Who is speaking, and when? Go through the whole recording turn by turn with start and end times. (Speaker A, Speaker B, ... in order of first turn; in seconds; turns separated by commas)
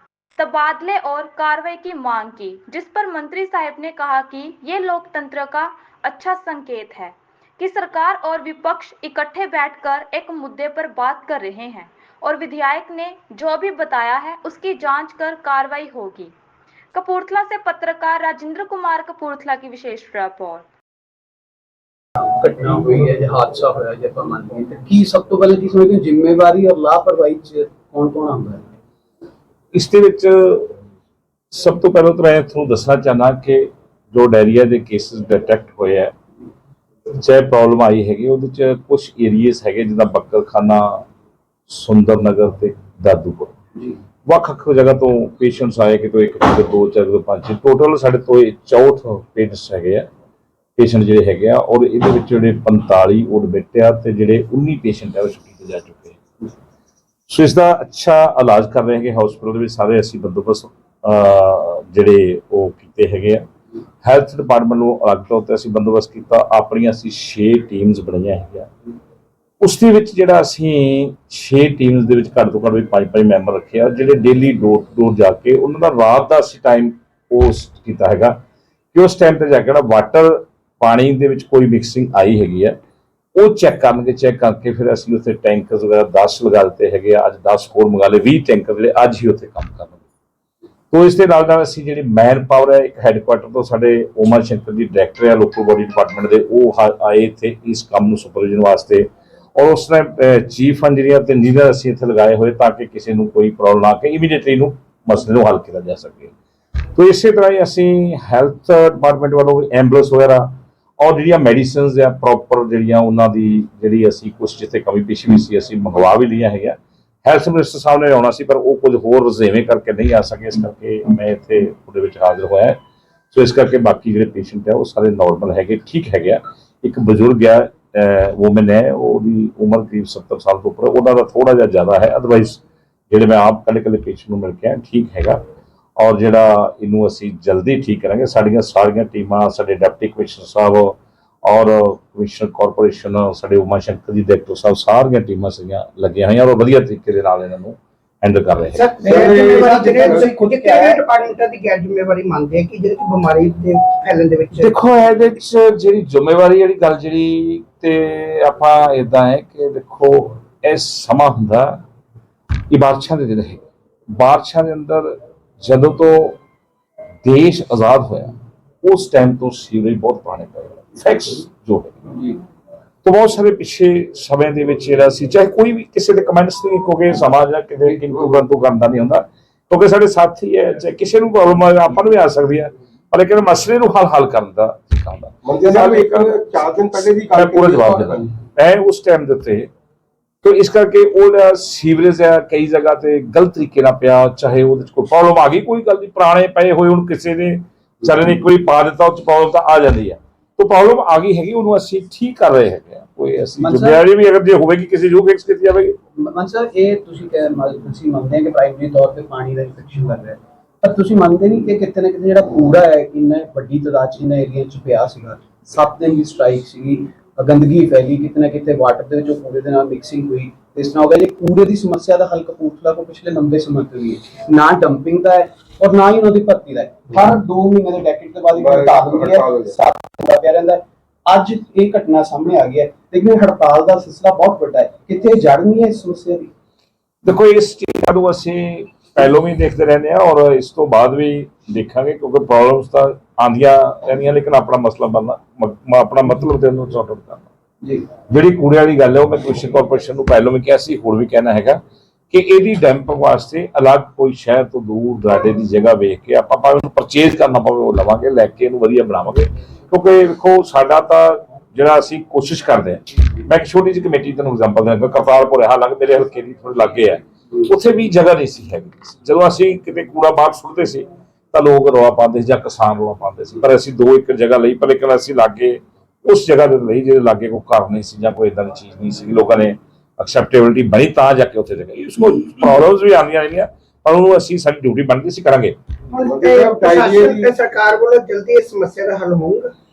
Speaker A: 0.4-16.3, Speaker A: 16.9-20.6, Speaker B: 22.2-28.6, Speaker C: 29.7-30.8, Speaker C: 31.5-36.1, Speaker C: 37.1-41.0, Speaker C: 41.7-43.5, Speaker C: 44.2-50.1, Speaker C: 50.8-56.2, Speaker C: 57.3-63.5, Speaker C: 64.0-68.7, Speaker C: 69.6-78.4, Speaker C: 78.9-82.8, Speaker C: 83.4-90.0, Speaker C: 90.9-106.3, Speaker C: 106.9-122.8, Speaker C: 123.3-135.4, Speaker C: 136.0-149.1, Speaker D: 148.7-154.7, Speaker E: 149.0-150.4, Speaker B: 149.1-151.0, Speaker C: 154.6-161.8, Speaker C: 162.7-166.4, Speaker C: 167.2-172.1, Speaker C: 173.0-186.3, Speaker E: 185.4-188.3, Speaker C: 187.3-189.7, Speaker C: 190.4-205.9, Speaker B: 203.6-204.0, Speaker B: 206.2-236.5, Speaker E: 228.5-229.8, Speaker C: 237.2-247.4, Speaker B: 247.8-248.1, Speaker C: 248.3-285.8, Speaker D: 286.1-289.7, Speaker E: 286.1-287.6